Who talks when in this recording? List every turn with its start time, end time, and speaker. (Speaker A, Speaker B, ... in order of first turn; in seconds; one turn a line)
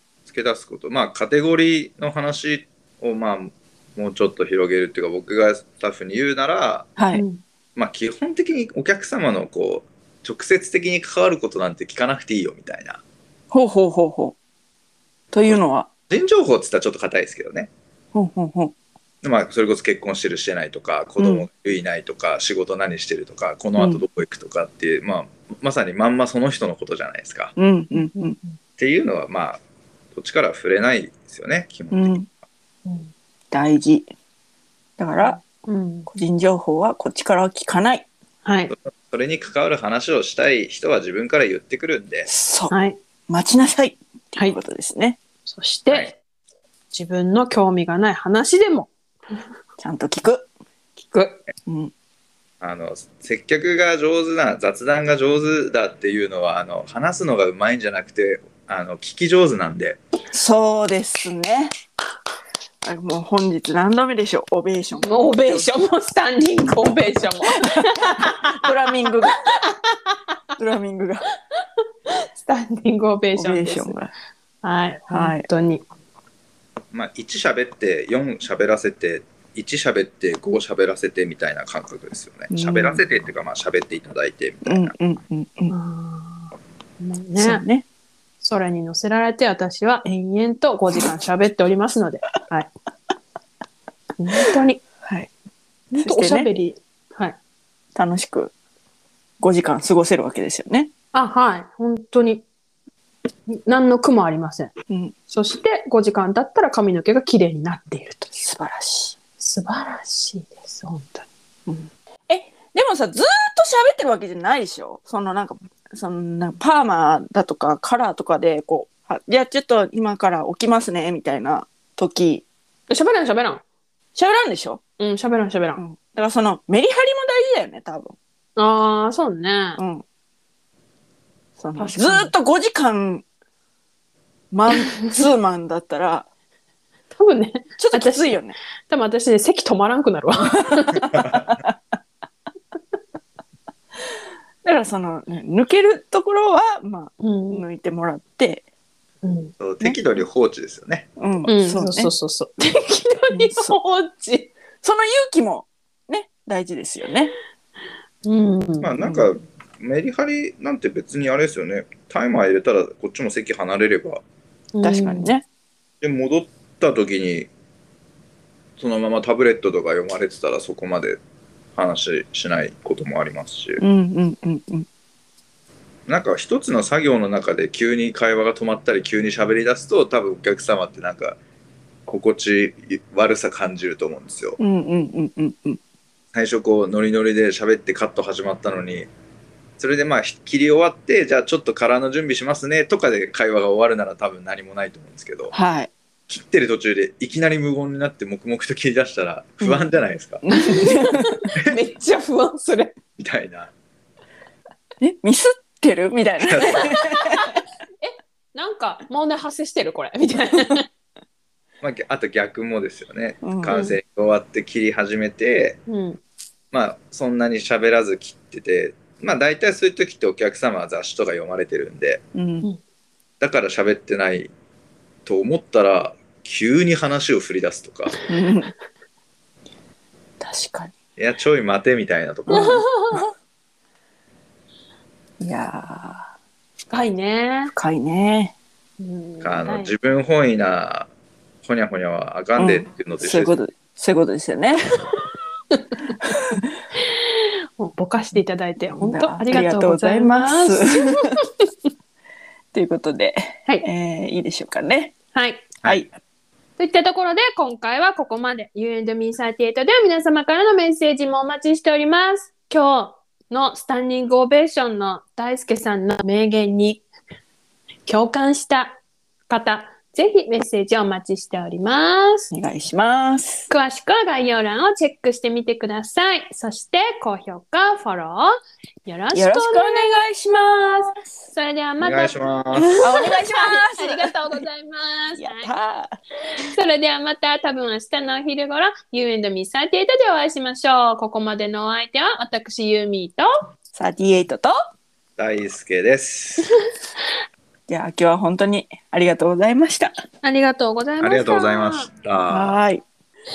Speaker A: 0.3-6.9
Speaker B: 7.0-7.2
Speaker C: 7.1-7.4
Speaker A: 7.8-13.0
Speaker B: 13.5-14.4
Speaker B: 15.3-15.9
Speaker A: 16.1-17.7
Speaker B: 18.1-18.7
Speaker A: 19.2-27.5
Speaker B: 21.2-21.5
Speaker B: 23.8-24.0
Speaker B: 27.6-28.4
Speaker A: 28.8-29.6
Speaker A: 30.1-32.3
Speaker B: 31.9-32.3
Speaker C: 32.9-33.1
Speaker B: 33.5-34.1
Speaker B: 35.0-35.4
Speaker C: 35.2-36.1
Speaker B: 36.1-38.1
Speaker C: 38.5-38.7
Speaker A: 38.7-42.3
Speaker B: 42.3-42.7
Speaker C: 42.7-43.0
Speaker B: 43.3-45.2
Speaker C: 45.5-46.2
Speaker C: 46.9-48.9
Speaker B: 49.8-50.5
Speaker C: 51.0-51.4
Speaker B: 51.7-51.9
Speaker A: 52.6-60.0
Speaker B: 60.3-61.7
Speaker B: 62.8-65.7
Speaker C: 65.0-68.6
Speaker B: 67.5-69.4
Speaker B: 70.6-71.3
Speaker C: 72.1-74.0
Speaker B: 73.4-74.1
Speaker C: 74.6-75.8
Speaker B: 75.1-75.5
Speaker A: 76.9-84.9
Speaker B: 82.5-83.0
Speaker B: 84.6-85.8
Speaker C: 85.7-87.7
Speaker B: 87.4-87.8
Speaker C: 88.4-92.7
Speaker C: 94.2-94.8
Speaker B: 95.0-95.3
Speaker B: 95.9-96.5
Speaker C: 95.9-97.4
Speaker B: 98.0-98.5
Speaker B: 99.4-100.9
Speaker C: 101.1-102.4
Speaker C: 103.5-104.7
Speaker C: 105.3-108.4
Speaker B: 108.4-109.2
Speaker C: 109.4-111.3
Speaker B: 111.7-122.4
Speaker C: 122.9-123.6
Speaker B: 124.2-124.8
Speaker C: 125.0-125.8
Speaker B: 125.8-128.2
Speaker C: 128.6-129.8
Speaker B: 129.8-130.0
Speaker B: 131.6-133.2
Speaker C: 131.8-132.3
Speaker B: 134.5-136.3
Speaker C: 134.9-135.2
Speaker C: 137.1-141.1
Speaker B: 137.8-138.6
Speaker A: 141.1-141.4
Speaker B: 144.6-148.6
Speaker C: 147.2-147.6
Speaker C: 149.2-149.5
Speaker A: 149.6-151.1
Speaker B: 151.2-152.1
Speaker C: 151.5-154.5
Speaker B: 153.3-153.8
Speaker B: 154.8-157.3
Speaker C: 158.2-158.9
Speaker A: 158.8-164.2
Speaker B: 159.0-159.3
Speaker C: 164.7-165.3
Speaker B: 164.8-165.4
Speaker A: 166.0-167.5
Speaker A: 168.8-171.2
Speaker A: 171.8-173.8
Speaker B: 173.8-174.9
Speaker A: 176.1-181.4
Speaker A: 182.1-184.6
Speaker B: 184.6-185.8
Speaker A: 186.3-189.1
Speaker A: 189.8-195.5
Speaker B: 195.5-195.9
Speaker A: 196.3-200.4
Speaker B: 199.6-199.9
Speaker B: 200.4-201.4
Speaker C: 200.7-203.0
Speaker A: 203.2-203.7
Speaker B: 205.0-207.6
Speaker A: 206.5-206.8
Speaker C: 206.9-207.5
Speaker C: 208.0-210.8
Speaker A: 211.8-215.8
Speaker B: 213.4-213.8
Speaker C: 213.7-214.0
Speaker C: 215.9-216.2
Speaker A: 216.7-222.2
Speaker B: 222.3-222.7
Speaker A: 223.4-224.5
Speaker A: 225.2-228.1
Speaker B: 228.3-228.7
Speaker B: 230.4-230.9
Speaker A: 231.2-233.2
Speaker B: 232.5-232.8
Speaker C: 232.5-233.3
Speaker B: 235.4-236.3
Speaker C: 236.9-237.7
Speaker B: 237.7-238.5
Speaker C: 239.0-239.9
Speaker A: 239.4-241.1
Speaker A: 241.6-243.6
Speaker B: 242.6-244.8
Speaker C: 245.8-246.4
Speaker B: 246.2-246.7
Speaker C: 247.1-251.5
Speaker B: 248.9-251.4
Speaker B: 252.7-255.2
Speaker C: 255.3-255.7
Speaker B: 255.8-256.1
Speaker C: 256.8-267.0
Speaker C: 268.1-269.0
Speaker C: 269.5-272.5
Speaker B: 272.5-273.7
Speaker C: 273.7-280.3
Speaker B: 279.3-281.2
Speaker C: 281.0-285.7
Speaker A: 282.0-283.0
Speaker B: 283.0-284.6
Speaker B: 285.4-286.2
Speaker C: 286.6-293.5
Speaker B: 293.9-294.8
Speaker A: 295.4-296.7
Speaker B: 297.9-300.1
Speaker C: 300.4-302.1
Speaker A: 301.2-302.8
Speaker B: 302.5-303.0